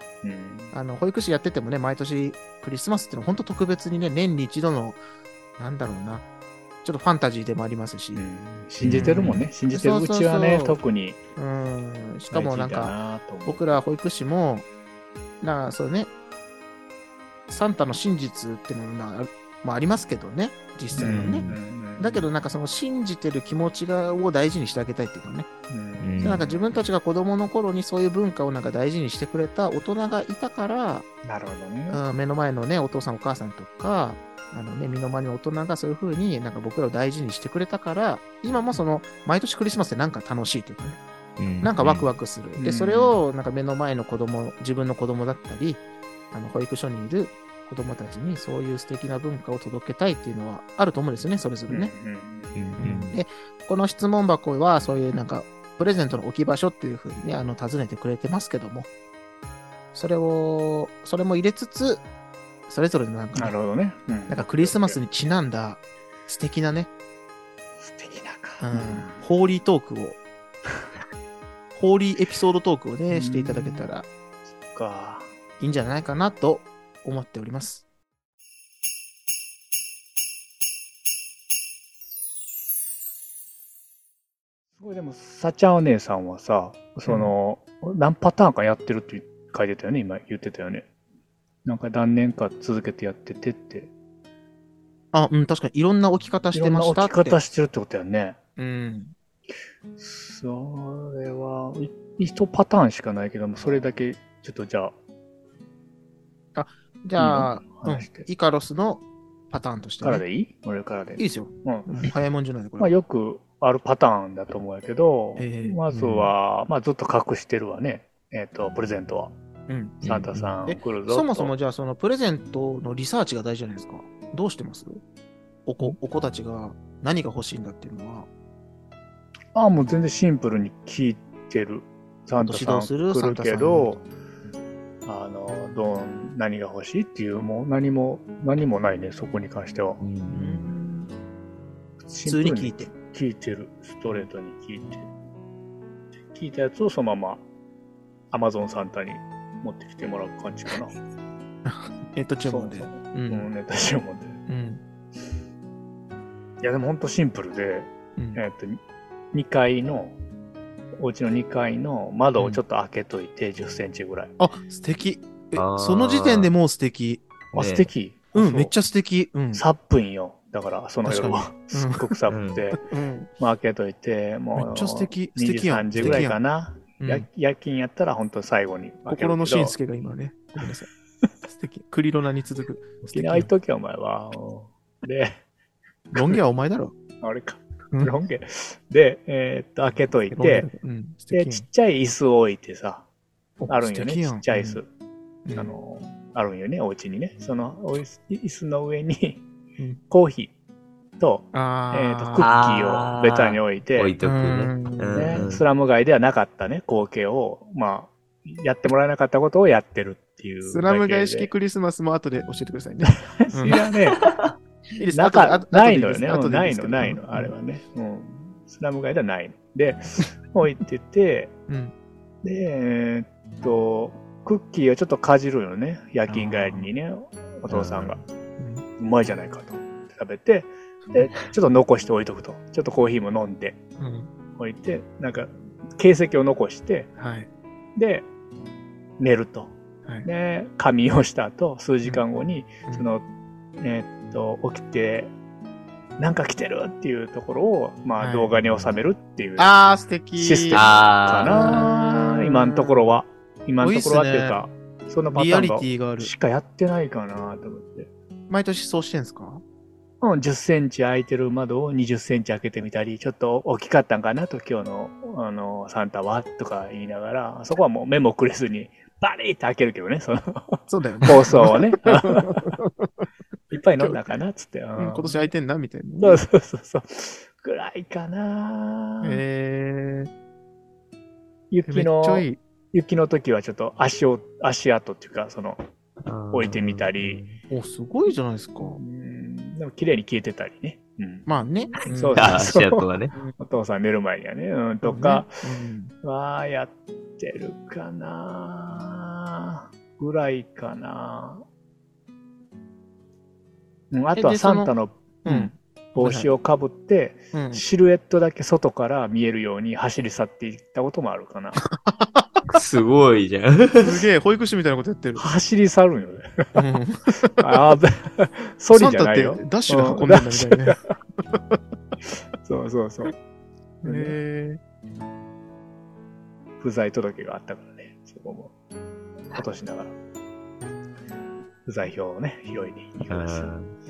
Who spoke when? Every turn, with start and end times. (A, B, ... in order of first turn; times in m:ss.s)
0:00.2-0:00.7 A
0:00.7-0:05.0 B
0:05.6-0:06.2 B
0:06.8-0:08.2 B
0:08.1-0:11.2 A
0:08.8-0:09.4 C
0:08.8-0:10.8 B
0:11.4-0:14.6 B
0:12.3-0:13.8 A
0:15.4-0:16.1 B
0:17.5-0:25.5 B
0:20.9-0:21.6 C
0:21.0-0:22.2 A
0:25.7-0:26.8 A
0:26.0-0:26.4 C
0:26.2-0:31.0 B
0:31.2-0:32.0 A
0:31.9-0:41.0 B
0:41.4-0:42.1 C
0:41.6-0:51.9 B
0:42.6-0:43.2 A
0:51.7-0:52.6 A
0:52.5-0:53.2 C
0:52.8-0:58.9 B
0:59.9-1:02.0 B
1:02.7-1:03.6 B
1:03.4-1:05.0 A
1:04.3-1:06.9 B
1:07.8-1:09.2 A
1:08.6-1:10.2 B
1:11.7-1:14.0 B
1:13.1-1:13.9 A
1:14.6-1:15.3 A
1:15.6-1:17.8 B
1:24.8-1:30.9 A
1:27.1-1:27.3 B
1:31.6-1:33.9 A
1:35.1-1:37.4 B
1:36.5-1:38.4 A
1:38.6-1:39.1 B
1:40.0-1:44.9 A
1:46.5-1:50.2 B
1:47.2-1:48.3 A
1:50.0-1:51.9 A
1:51.2-1:52.9 B
1:52.8-1:59.3 A
1:55.4-1:55.8 B
1:55.9-1:56.3 C
1:59.7-2:00.0 B
2:00.0-2:00.5 C
2:00.0-2:01.5 A
2:00.6-2:05.0 B
2:05.6-2:08.3 B
2:09.5-2:14.0 A
2:12.4-2:14.0 B
2:15.0-2:20.0 A
2:20.0-2:20.7 C
2:20.3-2:21.1 B
2:22.0-2:25.1 A
2:22.2-2:22.9 B
2:26.3-2:27.4 A
2:28.3-2:31.0 A
2:31.6-2:33.5 B
2:32.4-2:34.4 A
2:34.5-2:34.8 B
2:36.6-2:38.8 A
2:39.3-2:40.2 A
2:41.0-2:44.3 A
2:44.4-2:47.2 B
2:45.5-2:46.5 C
2:47.5-2:47.9 C
2:47.5-2:48.7 A
2:48.3-2:49.6 B
2:49.5-2:52.8 A
2:51.0-2:52.1 B
2:52.3-2:52.6 C
2:52.8-2:53.3 B
2:53.4-2:59.7 A
2:54.6-2:56.4 B
2:56.0-2:56.2 C
2:57.0-2:57.3 B
2:59.1-3:00.9 B
3:01.4-3:03.5 B
3:03.0-3:05.4 A
3:06.1-3:06.9 B
3:07.2-3:10.7 A
3:10.3-3:11.6 B
3:11.3-3:13.0 A
3:13.6-3:14.8 B
3:13.7-3:14.9 A
3:15.4-3:15.7 B
3:15.5-3:19.4 A
3:20.1-3:20.5 A
3:21.2-3:24.1 A
3:21.5-3:22.5 B
3:22.4-3:25.6 C
3:24.2-3:25.5 B
3:25.1-3:31.5 A
3:30.6-3:33.8 B
3:33.0-3:34.2 A
3:34.2-3:34.5 C
3:35.0-3:37.5 B
3:35.1-3:41.5 A
3:41.7-3:41.9 B
3:42.4-3:48.2 A
3:46.3-3:46.9 B
3:47.8-3:48.0 B
3:48.6-3:48.8 B
3:49.0-3:53.8 A
3:54.0-3:54.3 B
3:54.6-3:57.1 A
3:57.2-3:57.5 B
3:58.0-3:58.2 A
3:59.2-3:59.7 A
4:00.2-4:03.2 A
4:03.8-4:05.3 A
4:06.2-4:09.7 A
4:08.2-4:08.5 B
4:09.6-4:10.8 B
4:10.4-4:18.1 A
4:10.7-4:11.9 C
4:11.4-4:13.2 B
4:13.8-4:14.6 B
4:15.3-4:16.3 B
4:18.5-4:19.6 B
4:20.2-4:32.7 A
4:30.9-4:33.2 B
4:33.7-4:35.5 A
4:35.0-4:36.4 B
4:36.2-4:39.4 A
4:39.2-4:40.3 B
4:41.7-4:45.8 A
4:41.9-4:42.6 B
4:46.2-4:47.6 C
4:46.5-4:47.4 A
4:47.7-4:49.0 B
4:48.8-4:51.5 A
4:51.4-4:52.6 B
4:52.1-4:53.0 A
4:52.4-4:53.3 C
4:53.6-4:55.6 A
4:55.0-4:56.1 B
4:56.2-5:01.6 A
5:04.1-5:11.8 A
5:04.4-5:04.9 B
5:05.4-5:06.5 B
5:07.5-5:07.8 B
5:11.8-5:12.6 B
5:12.7-5:14.2 C
5:14.0-5:15.5 B
5:15.4-5:16.7 A
5:16.7-5:17.6 B
5:17.6-5:21.0 A
5:18.9-5:21.0 B
5:21.5-5:21.8 B
5:22.6-5:23.3 A
5:24.0-5:24.4 A
5:24.0-5:24.8 B
5:26.8-5:28.7 A
5:29.5-5:30.1 A
5:31.8-5:33.7 A
5:33.3-5:33.9 C